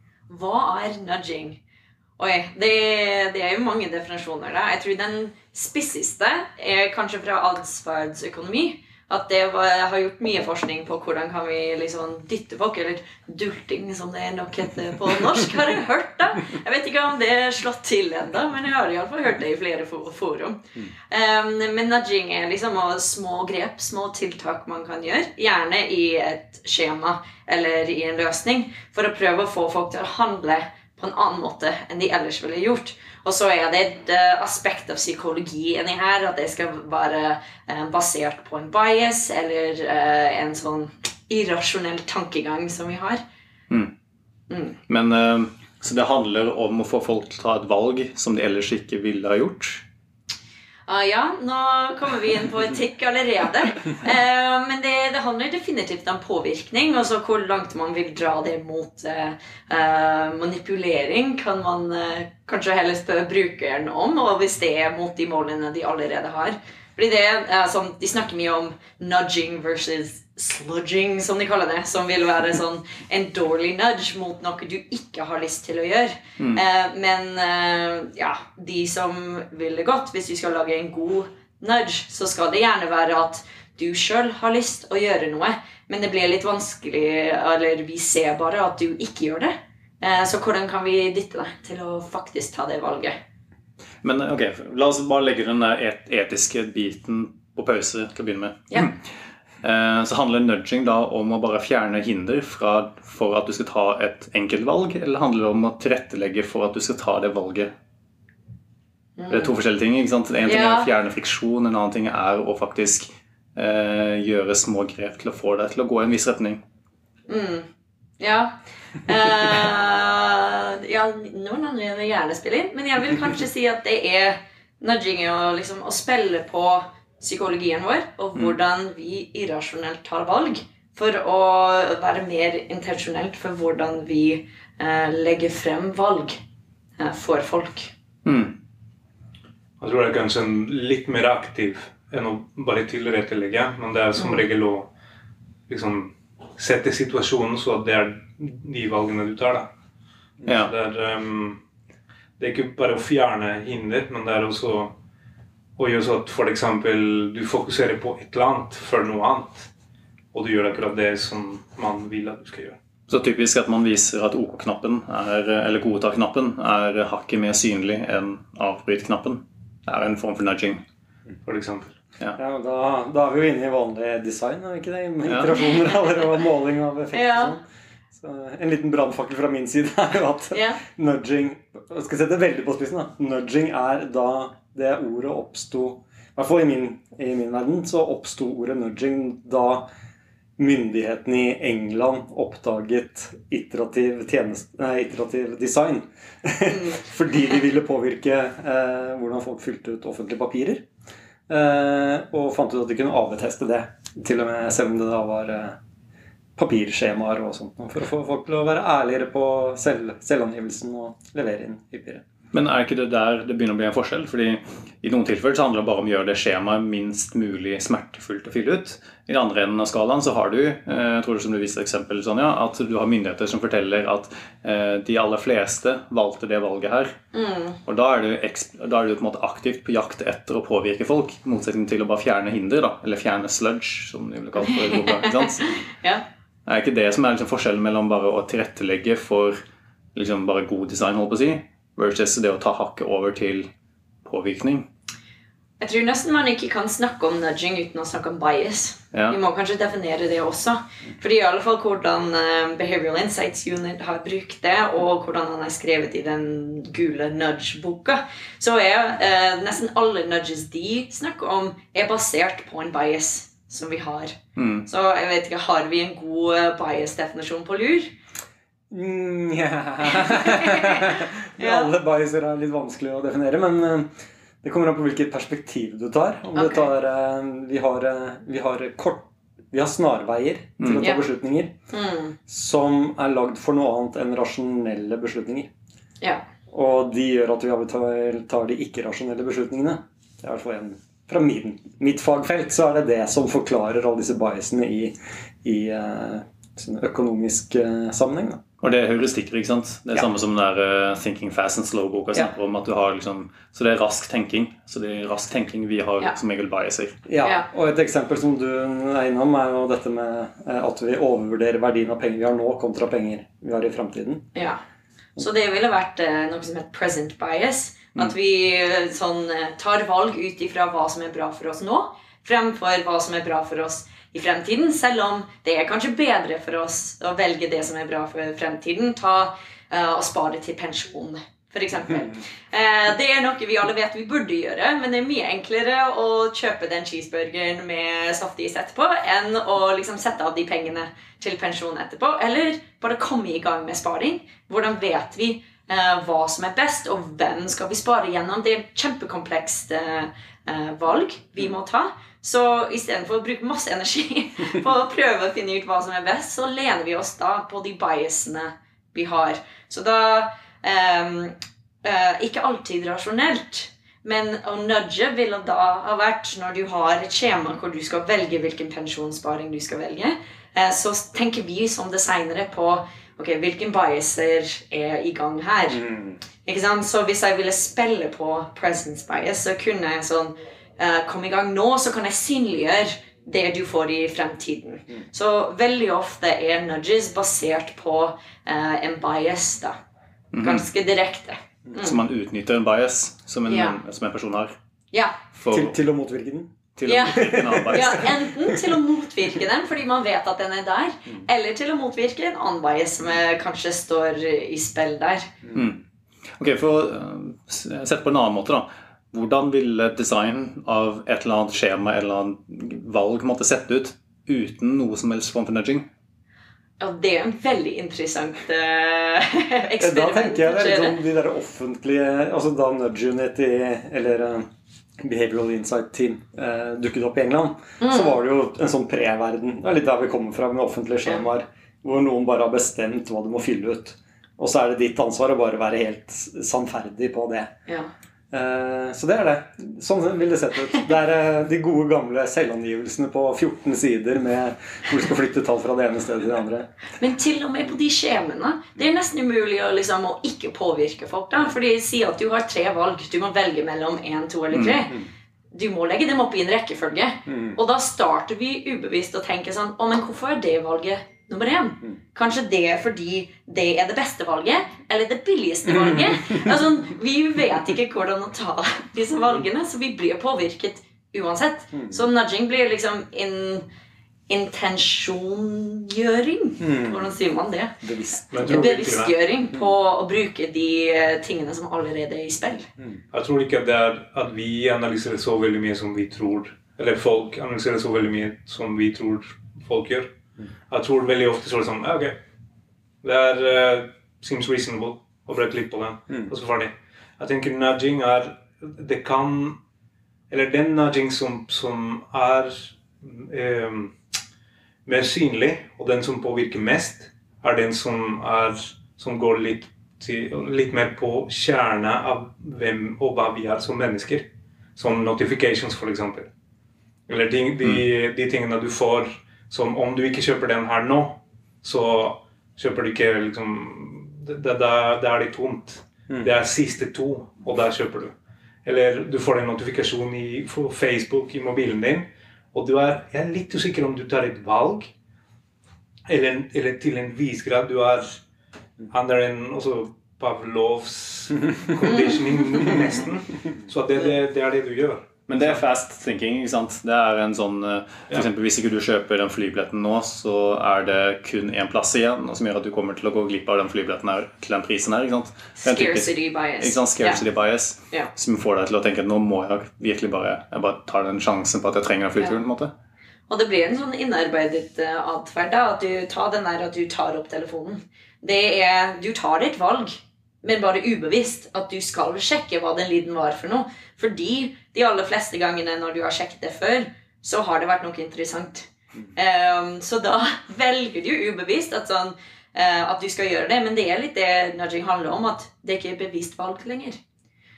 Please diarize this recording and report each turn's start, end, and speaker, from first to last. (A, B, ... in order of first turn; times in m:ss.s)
0:00.3-0:01.6 A
0:02.2-0:43.2 A
0:44.5-0:44.8 A
0:44.9-0:49.8 B
0:50.8-1:33.2 A
1:34.0-1:38.9 B
1:39.6-1:47.7 B
1:49.2-1:49.5 A
1:49.3-1:56.6 B
1:50.4-1:50.9 A
1:57.3-1:57.7 A
1:58.2-2:16.4 A
2:17.0-2:17.9 A
2:18.2-2:18.5 B
2:19.8-2:24.9 C
2:24.2-2:24.4 A
2:25.7-2:29.7 C
2:30.4-2:30.7 B
2:30.5-2:31.6 C
2:32.4-2:34.9 C
2:35.8-2:39.7 C
2:40.3-2:42.8 C
2:43.1-2:50.8 B
2:51.4-2:51.9 C
2:52.4-2:57.6 D
2:55.3-2:55.6 B
2:57.1-2:57.6 A
2:58.1-3:09.9 D
3:00.5-3:00.8 A
3:10.6-3:20.8 D
3:21.5-3:25.7 D
3:26.6-3:32.2 D
3:32.5-3:47.1 B
3:47.3-3:47.8 A
3:47.8-3:55.7 B
3:55.6-3:56.2 A
3:56.6-3:59.6 B
4:00.1-4:03.7 B
4:04.2-4:04.9 B
4:05.8-4:28.1 A
4:09.1-4:09.4 B
4:24.6-4:24.8 B
4:28.9-4:34.1 D
4:30.1-4:31.9 A
4:34.6-4:41.7 D
4:36.5-4:36.9 A
4:40.8-4:41.1 B
4:41.9-4:42.4 A
4:42.5-4:45.7 D
4:46.7-4:58.6 D
4:58.8-5:07.1 B
5:07.3-5:14.5 D
5:15.4-6:16.0 A
6:15.9-6:16.4 D
6:16.6-6:29.9 A
6:30.5-6:30.9 B
6:30.6-6:32.2 A
6:32.0-6:34.7 B
6:33.7-6:34.0 A
6:35.1-6:35.4 A
6:35.5-6:36.0 B
6:35.7-6:36.7 D
6:37.0-6:38.3 B
6:37.0-6:45.5 A
6:37.2-6:38.9 D
6:45.7-6:46.0 B
6:46.6-6:56.1 B
6:57.0-7:01.2 A
7:00.0-7:04.6 D
7:05.2-7:17.7 D
7:08.0-7:08.4 A
7:18.5-7:26.9 D
7:27.2-7:53.8 A
7:37.5-7:37.8 D
7:54.5-7:57.9 A
7:56.8-7:57.4 D
7:58.0-7:59.0 D
7:58.5-7:59.3 C
7:58.6-8:02.9 A
8:03.3-8:10.3 C
8:10.9-8:12.4 C
8:13.2-8:19.8 C
8:20.5-8:24.1 C
8:25.0-8:36.5 C
8:37.3-8:48.3 C
8:48.8-8:55.1 C
8:56.3-8:58.4 C
8:59.1-9:05.8 C
9:02.1-9:02.4 A
9:05.5-9:22.9 B
9:15.8-9:17.4 A
9:23.5-9:47.2 A